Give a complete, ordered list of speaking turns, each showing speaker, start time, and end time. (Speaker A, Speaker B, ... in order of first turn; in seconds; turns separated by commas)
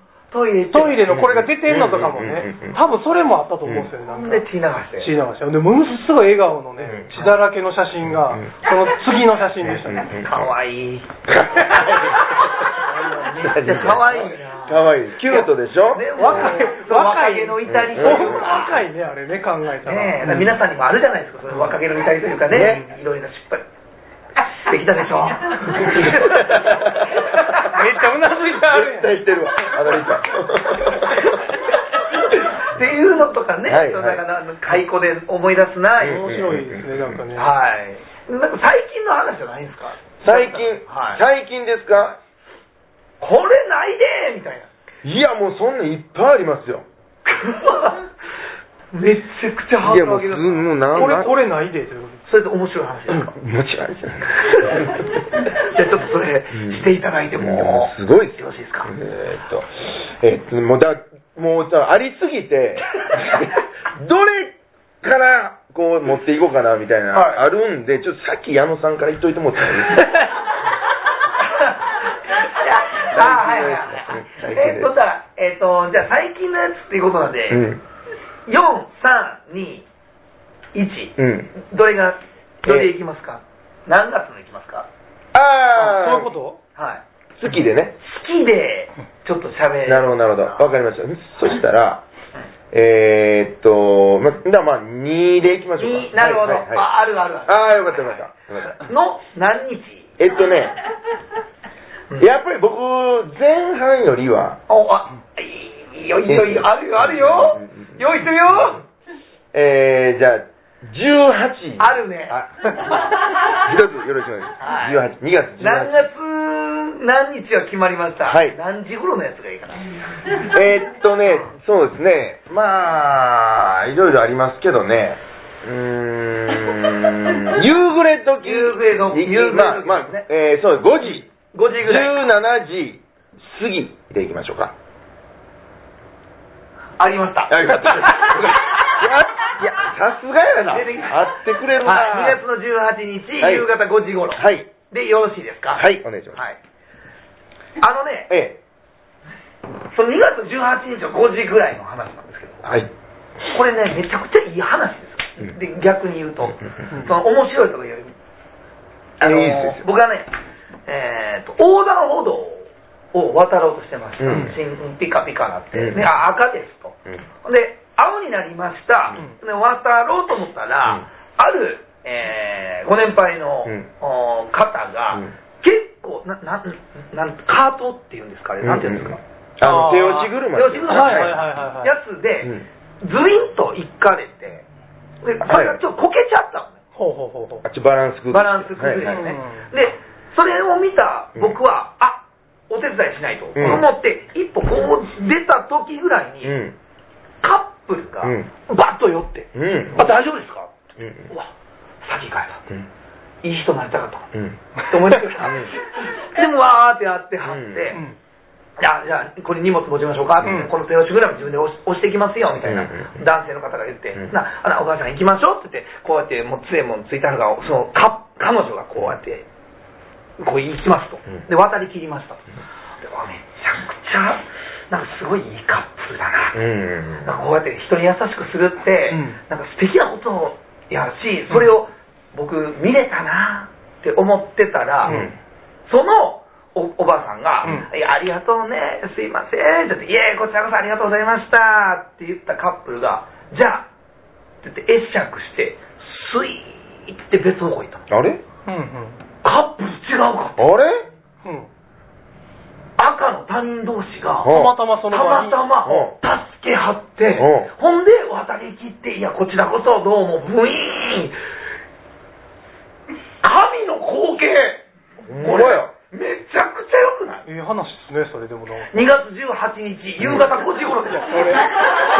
Speaker A: 0.3-1.1, Speaker B: 0.7-4.4, Speaker C: 1.1-2.8, Speaker C: 3.6-3.9, Speaker A: 4.0-5.1, Speaker B: 5.0-10.1, Speaker C: 6.8-7.3, Speaker C: 8.0-8.5, Speaker C: 9.6-10.5, Speaker A: 10.0-11.2, Speaker C: 11.2-12.7, Speaker A: 12.9-18.8, Speaker B: 13.0-13.3, Speaker C: 13.4-16.5, Speaker B: 16.2-20.5, Speaker C: 17.7-18.6, Speaker A: 19.8-23.6, Speaker C: 22.5-22.8, Speaker B: 22.6-22.9, Speaker A: 24.4-27.6, Speaker C: 25.8-27.2, Speaker B: 27.3-29.1, Speaker C: 28.6-31.5, Speaker B: 29.7-30.0, Speaker A: 30.9-36.3, Speaker C: 33.6-34.2, Speaker C: 36.0-37.2, Speaker B: 36.0-37.5, Speaker A: 37.3-41.2, Speaker C: 40.2-42.2, Speaker A: 43.2-44.7, Speaker C: 45.0-46.8, Speaker A: 47.2-48.1, Speaker A: 48.9-51.3, Speaker C: 49.8-51.3, Speaker B: 50.9-52.2, Speaker A: 52.2-53.3, Speaker C: 53.1-55.1, Speaker A: 54.3-58.9, Speaker C: 56.5-56.9, Speaker C: 57.4-70.2, Speaker A: 67.1-67.4, Speaker A: 71.4-77.7, Speaker C: 73.0-74.9, Speaker C: 77.5-77.8, Speaker A: 78.5-79.9, Speaker A: 80.7-84.9, Speaker C: 81.2-81.5, Speaker C: 85.3-86.3, Speaker B: 85.7-86.6, Speaker A: 86.8-87.0, Speaker C: 87.4-88.0, Speaker A: 88.0-90.7, Speaker C: 89.8-92.0, Speaker C: 92.7-96.8, Speaker A: 95.8-100.2, Speaker C: 97.5-98.8, Speaker C: 100.2-100.8, Speaker C: 102.2-104.6, Speaker A: 104.7-108.8, Speaker C: 106.3-108.0, Speaker C: 109.5-116.0, Speaker A: 111.8-113.0, Speaker A: 114.6-115.0, Speaker A: 115.6-120.0, Speaker C: 118.2-118.5, Speaker C: 120.3-131.3, Speaker A: 128.4-130.2, Speaker A: 131.5-132.2, Speaker C: 131.8-134.7, Speaker A: 137.0-138.5, Speaker C: 137.5-142.4, Speaker A: 140.7-146.6, Speaker C: 143.4-143.7, Speaker C: 144.3-144.7, Speaker C: 145.8-146.4, Speaker A: 147.8-148.3, Speaker C: 148.3-148.6, Speaker A: 149.9-152.7, Speaker C: 152.6-152.9, Speaker A: 153.5-158.1, Speaker C: 159.2-159.8, Speaker A: 159.2-160.3, Speaker A: 160.9-179.2, Speaker C: 164.2-164.6, Speaker B: 164.3-164.5, Speaker C: 165.7-166.1, Speaker C: 178.6-181.4, Speaker B: 179.6-180.3, Speaker A: 180.5-184.7, Speaker B: 180.9-181.9, Speaker A: 185.2-186.8, Speaker C: 185.4-185.8, Speaker B: 186.9-187.6, Speaker C: 187.6-189.2, Speaker A: 188.3-196.6, Speaker B: 189.1-189.7, Speaker C: 193.6-193.8, Speaker C: 196.4-196.8, Speaker A: 197.4-200.7, Speaker C: 198.2-198.5, Speaker C: 199.5-200.2, Speaker C: 201.0-201.3, Speaker A: 202.0-202.6, Speaker A: 203.4-208.0, Speaker C: 204.3-204.6, Speaker C: 205.4-205.7, Speaker C: 207.5-207.9, Speaker A: 208.8-219.4, Speaker B: 210.4-210.7, Speaker C: 212.6-213.1, Speaker A: 220.4-222.4, Speaker A: 223.0-226.6, Speaker C: 226.5-227.4, Speaker A: 227.2-235.2, Speaker B: 229.1-229.4, Speaker B: 235.0-235.3, Speaker C: 235.1-235.4, Speaker A: 235.9-243.9, Speaker A: 244.6-248.0, Speaker C: 248.1-248.4, Speaker B: 248.7-249.2, Speaker A: 249.4-250.7, Speaker C: 250.6-251.1, Speaker A: 253.0-254.5, Speaker C: 254.4-254.7, Speaker B: 254.4-255.6, Speaker A: 255.1-261.4, Speaker C: 255.8-256.1, Speaker C: 257.4-257.7, Speaker A: 263.4-264.8, Speaker C: 265.3-265.9, Speaker A: 265.4-267.4, Speaker B: 267.4-269.0, Speaker A: 268.9-271.7, Speaker C: 270.2-270.4, Speaker B: 271.1-271.8